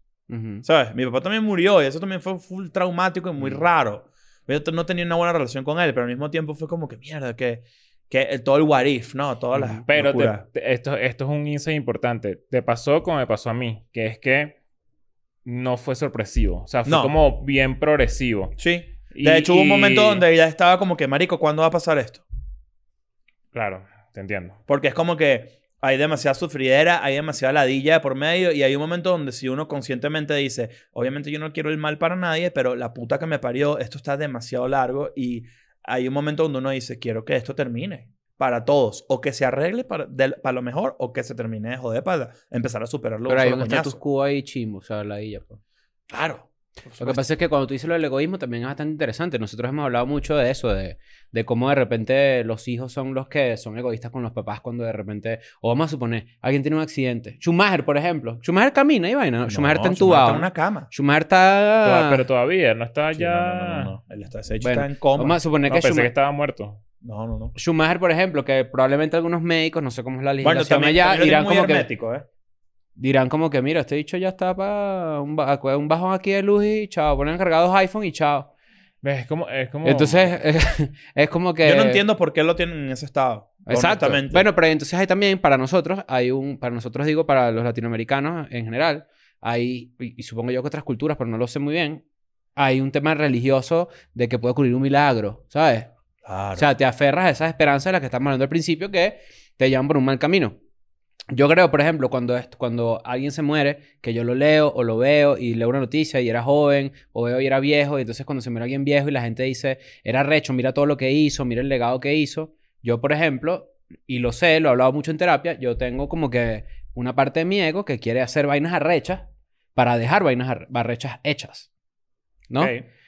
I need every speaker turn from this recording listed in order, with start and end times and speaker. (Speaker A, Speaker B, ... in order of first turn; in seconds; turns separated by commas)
Speaker A: 0.3-0.7, Speaker B: 0.6-10.4, Speaker A: 9.5-9.8, Speaker C: 9.9-14.6, Speaker C: 15.4-20.2, Speaker B: 16.9-17.1, Speaker B: 18.6-22.2, Speaker C: 23.5-24.6, Speaker B: 24.7-44.0, Speaker A: 43.3-45.6, Speaker B: 46.1-47.2, Speaker A: 47.0-62.2, Speaker B: 59.5-60.9, Speaker C: 61.8-63.9, Speaker B: 63.1-65.4, Speaker A: 64.6-66.1, Speaker C: 65.7-66.8, Speaker B: 67.0-67.5, Speaker A: 67.5-71.9, Speaker B: 70.4-72.2, Speaker A: 73.0-78.5, Speaker C: 79.0-80.3, Speaker A: 79.8-82.0, Speaker B: 81.6-84.5, Speaker A: 83.7-92.0, Speaker A: 92.6-95.9, Speaker B: 96.2-96.7, Speaker A: 96.6-100.6, Speaker A: 101.3-121.7, Speaker B: 122.6-122.9